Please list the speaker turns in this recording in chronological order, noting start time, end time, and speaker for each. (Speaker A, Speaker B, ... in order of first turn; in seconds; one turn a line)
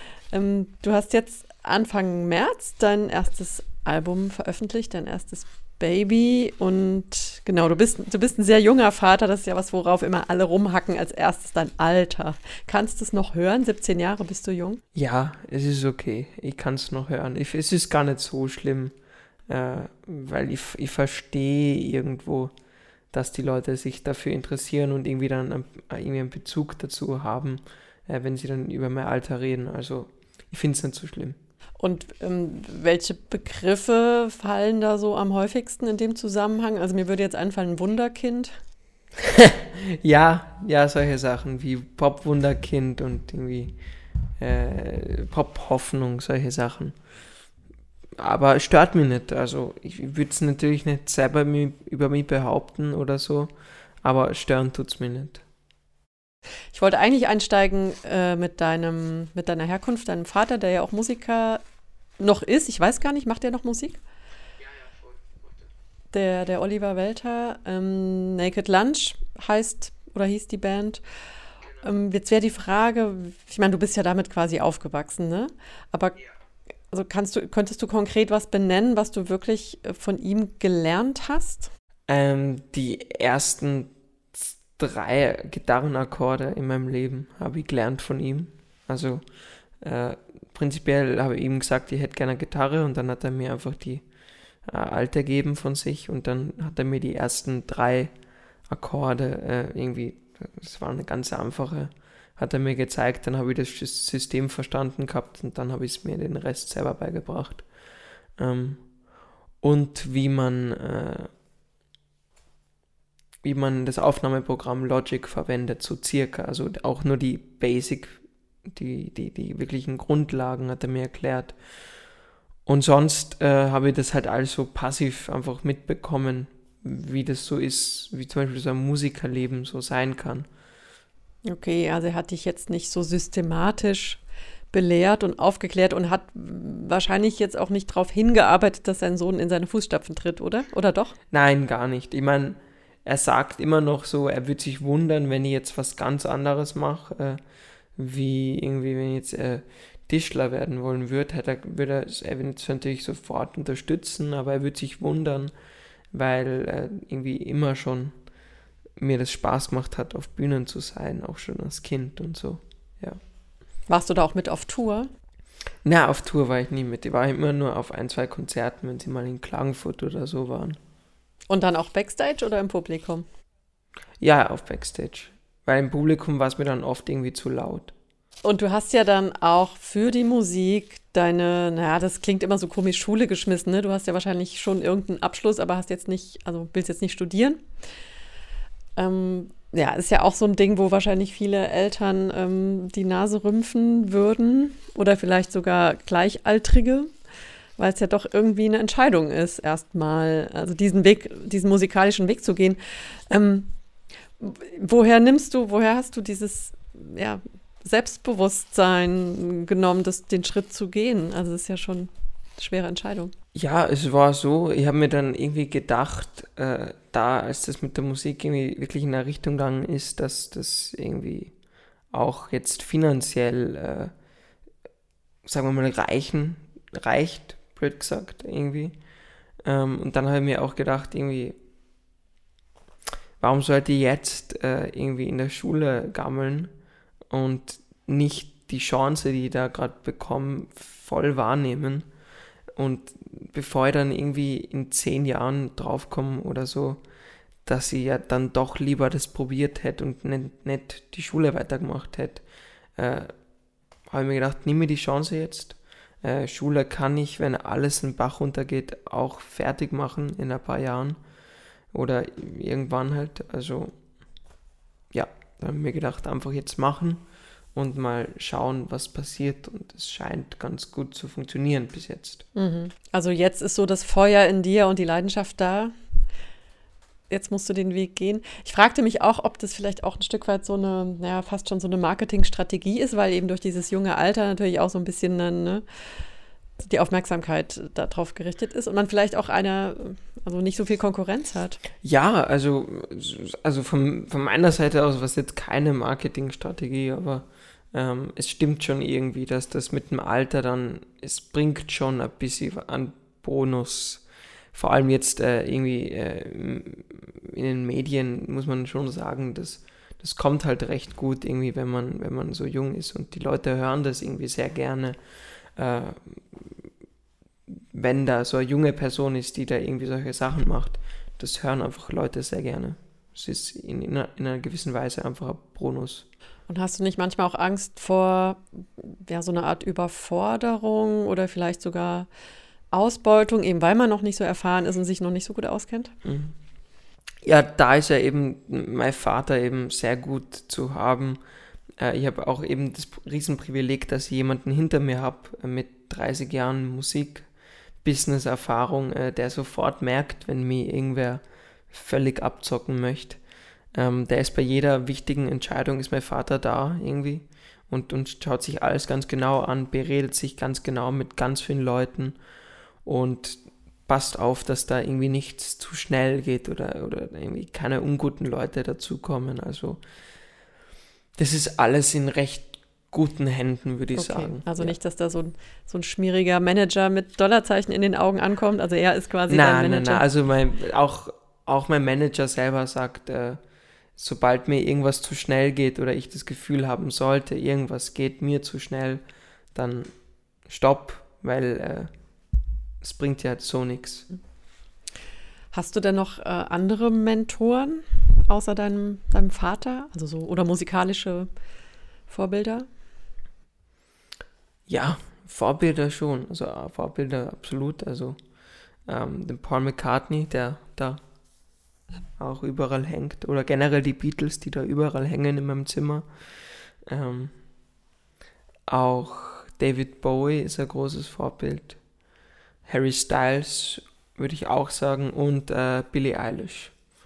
Speaker A: 0.3-14.8
Speaker B: 14.9-18.9
Speaker B: 19.5-22.5
Speaker B: 23.1-31.4
Speaker A: 31.8-38.6
Speaker B: 39.2-43.8
Speaker B: 44.4-47.0
Speaker B: 48.2-55.4
Speaker A: 56.7-61.6
Speaker A: 62.2-64.0
Speaker A: 66.1-71.0
Speaker A: 71.8-76.2
Speaker A: 76.9-81.7
Speaker B: 82.1-89.2
Speaker B: 89.8-94.0
Speaker B: 94.6-98.1
Speaker B: 98.7-107.7
Speaker B: 108.4-108.8
Speaker B: 109.6-111.3
Speaker B: 113.4-121.6
Speaker B: 122.7-130.5
Speaker A: 131.4-134.2
Speaker A: 134.7-141.2
Speaker B: 141.3-147.4
Speaker B: 148.0-155.5
Speaker B: 156.1-158.2
Speaker B: 159.0-163.2
Speaker A: 163.9-165.1
Speaker B: 165.8-170.8
Speaker A: 171.5-173.2
Speaker B: 174.2-177.9
Speaker A: 178.4-187.6
Speaker A: 189.0-197.1
Speaker A: 197.8-203.7
Speaker A: 204.4-213.3
Speaker B: 213.6-221.5
Speaker B: 222.1-224.1
Speaker B: 225.4-229.0
Speaker B: 229.6-231.6
Speaker B: 233.4-236.7
Speaker B: 237.3-242.1
Speaker B: 242.8-247.0
Speaker B: 247.7-252.4
Speaker B: 253.0-253.3
Speaker B: 254.1-261.2
Speaker B: 261.9-263.9
Speaker B: 265.1-267.2
Speaker B: 267.8-272.4
Speaker A: 272.5-275.9
Speaker A: 277.3-285.8
Speaker A: 286.8-291.8
Speaker B: 292.0-315.2
Speaker B: 315.8-316.9
Speaker B: 317.7-326.2
Speaker A: 326.7-332.3
Speaker A: 332.9-336.1
Speaker B: 336.2-336.5
Speaker B: 337.4-341.4
Speaker B: 342.0-347.5
Speaker B: 348.0-353.4
Speaker B: 353.9-362.4
Speaker B: 363.0-370.0
Speaker B: 371.4-374.9
Speaker A: 374.1-380.2
Speaker B: 379.5-383.6
Speaker B: 384.1-389.2
Speaker B: 389.8-390.1
Speaker B: 390.7-392.1
Speaker B: 393.0-394.3
Speaker A: 395.7-401.5
Speaker A: 402.3-402.9
Speaker B: 404.9-408.4
Speaker B: 409.1-411.2
Speaker B: 412.4-416.3
Speaker B: 417.1-417.5
Speaker B: 418.9-422.0
Speaker B: 422.9-426.9